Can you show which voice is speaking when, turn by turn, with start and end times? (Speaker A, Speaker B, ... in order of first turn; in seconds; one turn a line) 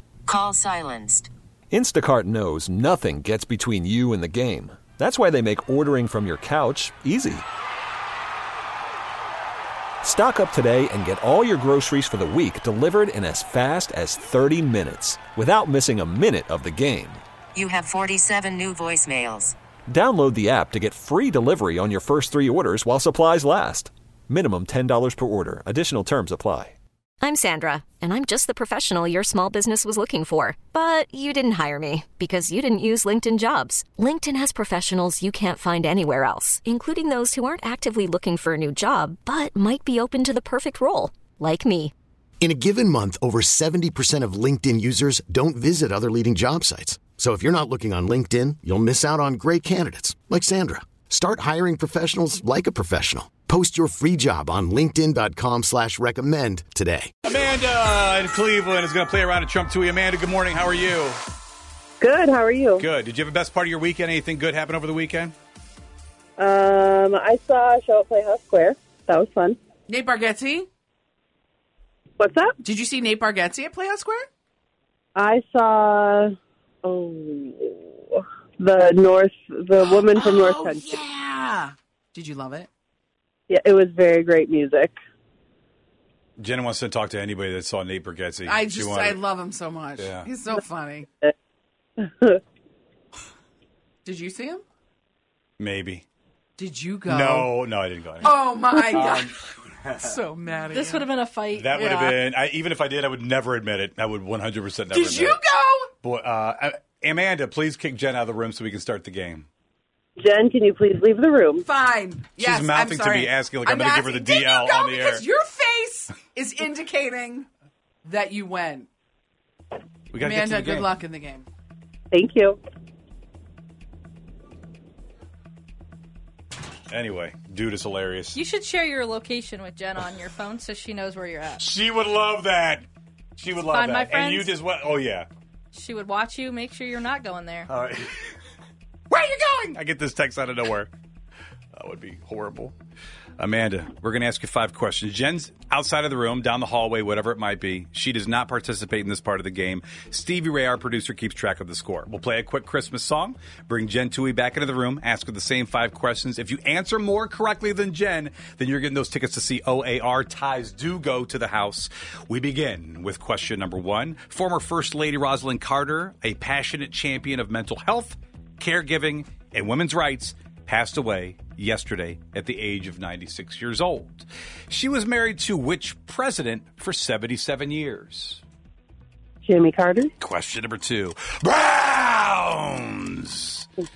Speaker A: 0.3-1.3
Speaker B: 1.7-7.4
Speaker B: 10.0-17.2
Speaker A: 17.6-19.5
Speaker B: 19.9-26.7
Speaker C: 27.2-41.9
Speaker D: 42.4-57.1
Speaker E: 57.2-61.2
Speaker F: 62.0-62.8
Speaker E: 62.8-65.3
Speaker F: 66.4-69.6
Speaker G: 69.9-70.7
Speaker F: 72.2-72.6
Speaker G: 72.6-74.3
Speaker F: 75.1-81.0
Speaker G: 79.8-82.7
Speaker F: 83.5-85.0
Speaker E: 86.4-89.3
Speaker G: 88.5-91.1
Speaker E: 90.0-90.3
Speaker F: 92.0-92.4
Speaker G: 94.0-94.6
Speaker E: 95.6-96.0
Speaker G: 96.6-97.5
Speaker E: 97.0-100.2
Speaker G: 98.2-99.4
Speaker G: 99.9-101.1
Speaker H: 100.7-102.2
Speaker E: 101.5-105.4
Speaker G: 104.9-105.9
Speaker E: 106.0-109.5
Speaker F: 110.2-111.7
Speaker G: 111.6-117.5
Speaker E: 112.3-115.3
Speaker G: 118.0-118.9
Speaker E: 120.1-121.0
Speaker G: 120.2-121.5
Speaker F: 122.1-122.6
Speaker E: 126.9-128.4
Speaker H: 128.3-131.6
Speaker E: 131.6-132.8
Speaker E: 133.4-135.3
Speaker H: 133.6-134.5
Speaker H: 135.7-137.7
Speaker E: 137.7-138.3
Speaker E: 139.1-140.9
Speaker E: 141.8-142.7
Speaker E: 143.4-178.4
Speaker F: 179.4-180.1
Speaker E: 180.2-183.7